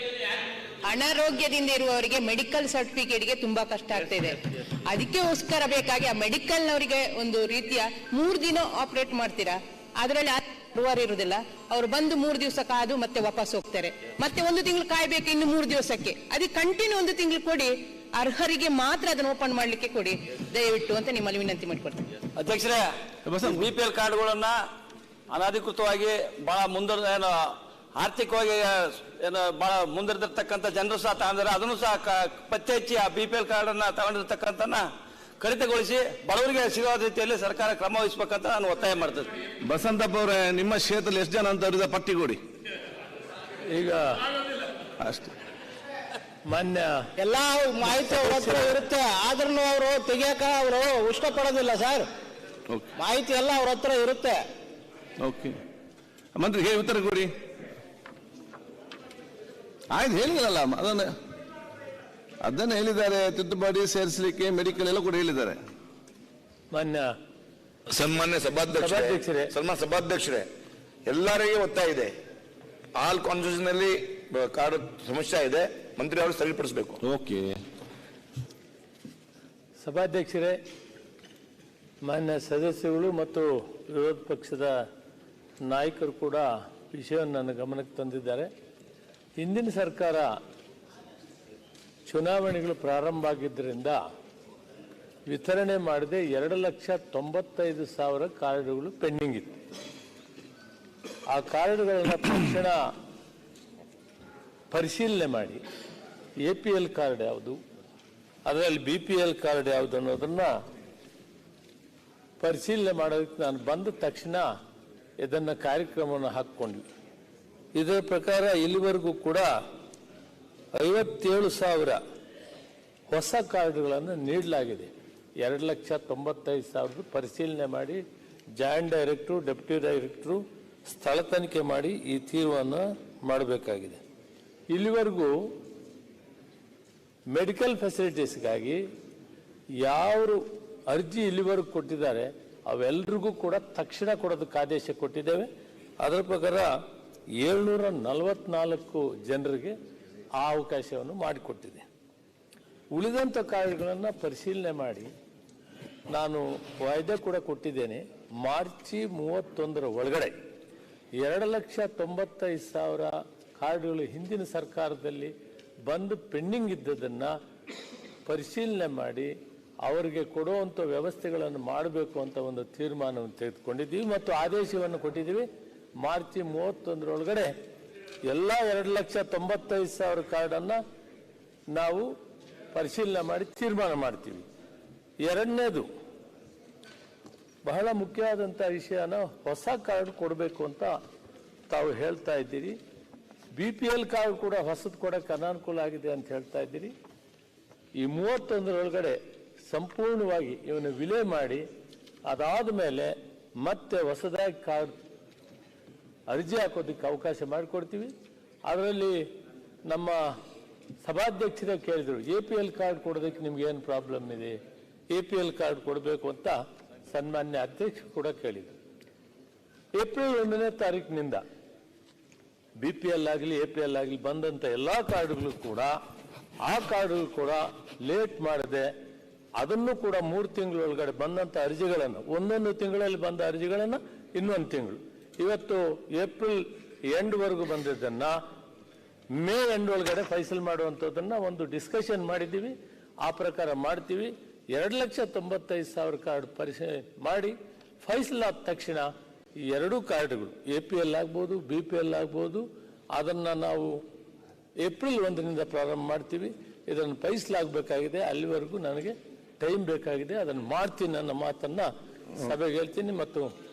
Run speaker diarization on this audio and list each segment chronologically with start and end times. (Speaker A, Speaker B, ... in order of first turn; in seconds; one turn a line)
Speaker A: 0.8-22.1
Speaker B: 22.4-24.6
Speaker C: 23.2-23.6
Speaker B: 25.3-34.9
Speaker B: 35.4-39.3
Speaker C: 39.6-42.4
Speaker D: 43.7-44.3
Speaker C: 45.0-45.3
Speaker D: 46.5-46.9
Speaker E: 47.2-52.1
Speaker C: 48.1-48.5
Speaker E: 53.0-54.5
Speaker C: 55.2-55.6
Speaker C: 56.3-57.3
Speaker C: 59.9-61.1
Speaker C: 62.4-65.6
Speaker D: 66.7-67.1
Speaker F: 67.9-70.5
Speaker D: 68.7-69.5
Speaker F: 71.1-72.1
Speaker F: 73.0-77.0
Speaker C: 77.0-77.6
Speaker D: 79.8-80.6
Speaker D: 82.0-84.7
Speaker D: 85.7-88.5
Speaker D: 89.4-90.3
Speaker D: 92.1-94.0
Speaker D: 95.3-99.5
Speaker D: 101.3-102.8
Speaker D: 104.7-105.6
Speaker D: 106.4-107.6
Speaker D: 108.5-110.5
Speaker D: 112.4-114.5
Speaker D: 115.2-116.8
Speaker D: 117.8-119.5
Speaker D: 120.7-122.0
Speaker D: 123.1-128.0
Speaker D: 128.6-134.0
Speaker D: 134.7-135.3
Speaker D: 137.3-138.8
Speaker D: 139.8-145.5
Speaker D: 146.0-146.7
Speaker D: 147.4-149.8
Speaker D: 150.4-151.8
Speaker D: 152.9-155.1
Speaker D: 156.1-160.3
Speaker D: 161.2-165.3
Speaker D: 165.8-167.3
Speaker D: 168.2-169.3
Speaker D: 169.8-175.5
Speaker D: 176.0-177.5
Speaker D: 178.2-180.8
Speaker D: 181.7-182.1
Speaker D: 182.7-184.4
Speaker D: 185.2-185.9
Speaker D: 187.6-190.9
Speaker D: 191.7-192.8
Speaker D: 193.5-196.9
Speaker D: 198.0-201.6
Speaker D: 202.3-204.9
Speaker D: 206.3-208.1
Speaker D: 208.7-209.2
Speaker D: 209.8-210.2
Speaker D: 211.0-214.6
Speaker D: 215.1-216.5
Speaker D: 217.1-218.7
Speaker D: 219.9-221.4
Speaker D: 222.8-225.9
Speaker D: 226.6-228.9
Speaker D: 229.6-238.3
Speaker D: 239.3-249.1
Speaker D: 249.7-253.9
Speaker D: 254.8-263.5